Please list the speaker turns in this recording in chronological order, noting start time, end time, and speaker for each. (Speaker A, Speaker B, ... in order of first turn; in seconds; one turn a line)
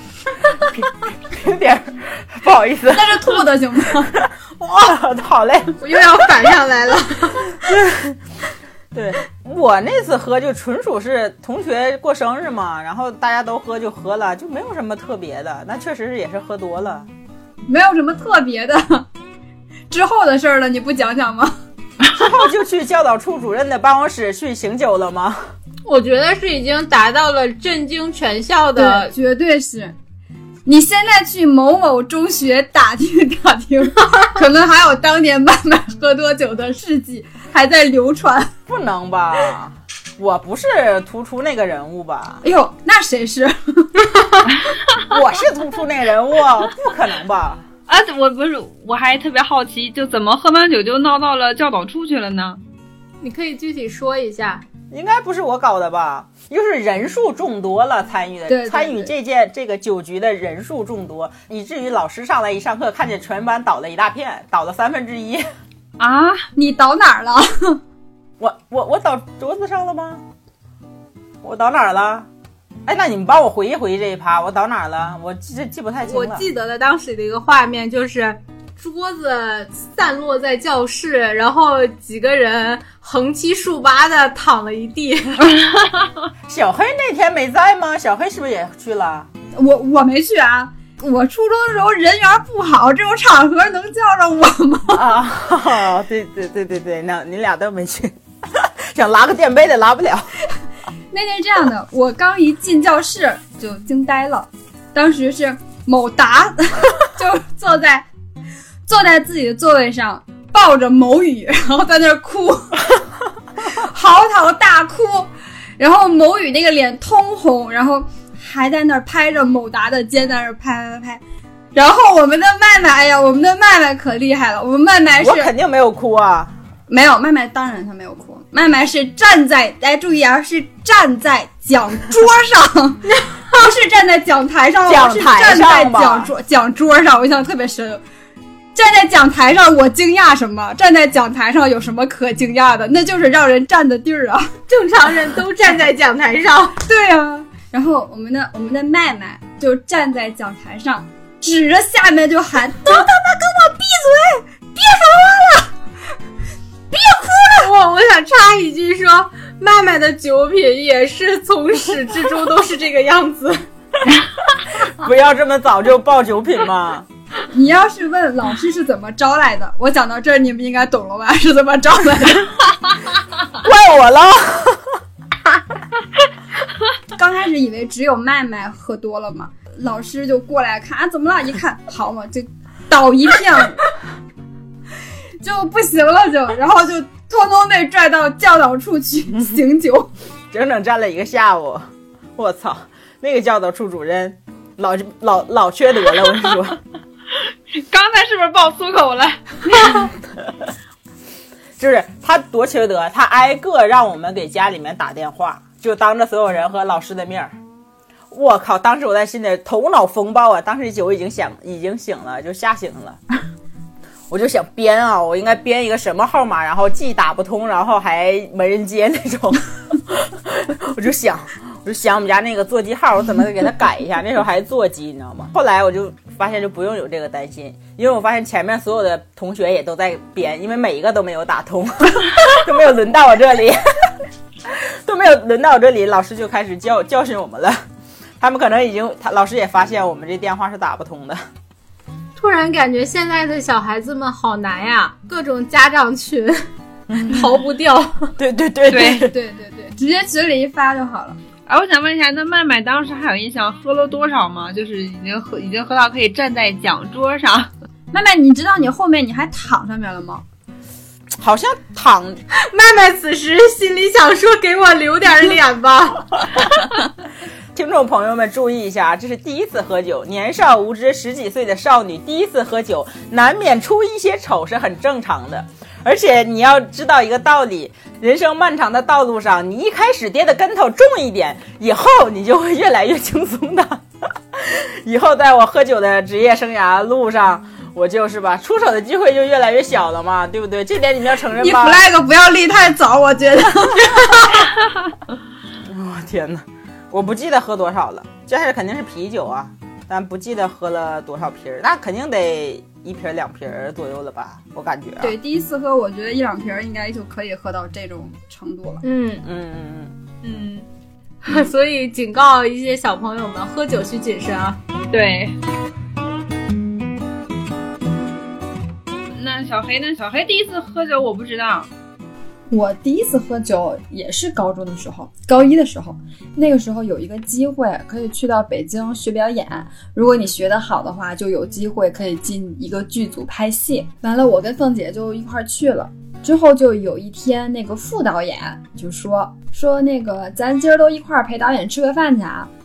Speaker A: 0.6-3.3
Speaker B: 2.9-4.1
Speaker A: 4.2-6.2
Speaker C: 4.6-5.0
Speaker C: 5.8-7.5
Speaker A: 7.6-8.2
Speaker A: 8.9-17.1
Speaker B: 17.7-19.1
Speaker B: 19.9-21.5
Speaker A: 22.1-25.5
Speaker C: 25.8-29.1
Speaker B: 28.8-29.9
Speaker B: 30.6-38.5
Speaker A: 38.7-42.4
Speaker B: 42.4-44.1
Speaker A: 45.0-47.6
Speaker D: 47.9-52.6
Speaker C: 53.2-54.6
Speaker A: 54.9-65.5
Speaker B: 58.5-59.1
Speaker D: 66.0-66.5
Speaker B: 66.5-67.8
Speaker A: 68.4-70.2
Speaker A: 71.4-72.2
Speaker A: 72.8-76.4
Speaker C: 76.0-85.6
Speaker A: 86.5-89.3
Speaker B: 89.5-95.1
Speaker A: 94.9-100.4
Speaker B: 101.1-108.1
Speaker B: 108.8-113.0
Speaker B: 113.6-121.2
Speaker B: 121.7-125.5
Speaker A: 125.2-126.5
Speaker B: 126.9-138.0
Speaker A: 134.8-136.3
Speaker B: 138.7-144.5
Speaker C: 144.7-146.8
Speaker B: 146.8-153.1
Speaker C: 152.9-155.6
Speaker B: 156.9-157.5
Speaker C: 157.5-163.6
Speaker A: 164.8-167.1
Speaker B: 167.5-172.6
Speaker A: 173.6-175.0
Speaker B: 177.1-183.8
Speaker B: 185.4-190.1
Speaker A: 190.5-196.8
Speaker D: 197.7-200.1
Speaker A: 201.8-207.6
Speaker A: 208.3-213.2
Speaker A: 214.3-237.8
Speaker A: 238.4-241.4
Speaker C: 242.3-246.7
Speaker C: 247.2-248.3
Speaker A: 248.4-249.3
Speaker D: 248.9-249.3
Speaker B: 249.0-251.4
Speaker D: 251.7-257.7
Speaker B: 258.1-260.4
Speaker A: 261.4-262.4
Speaker C: 262.6-266.9
Speaker A: 267.7-284.0
Speaker A: 284.5-292.0
Speaker B: 291.6-294.6
Speaker A: 295.9-305.3
Speaker B: 305.2-309.0
Speaker C: 309.0-309.4
Speaker A: 309.4-310.1
Speaker C: 310.4-310.9
Speaker C: 311.4-314.8
Speaker D: 315.1-315.6
Speaker D: 319.3-321.9
Speaker B: 322.7-342.7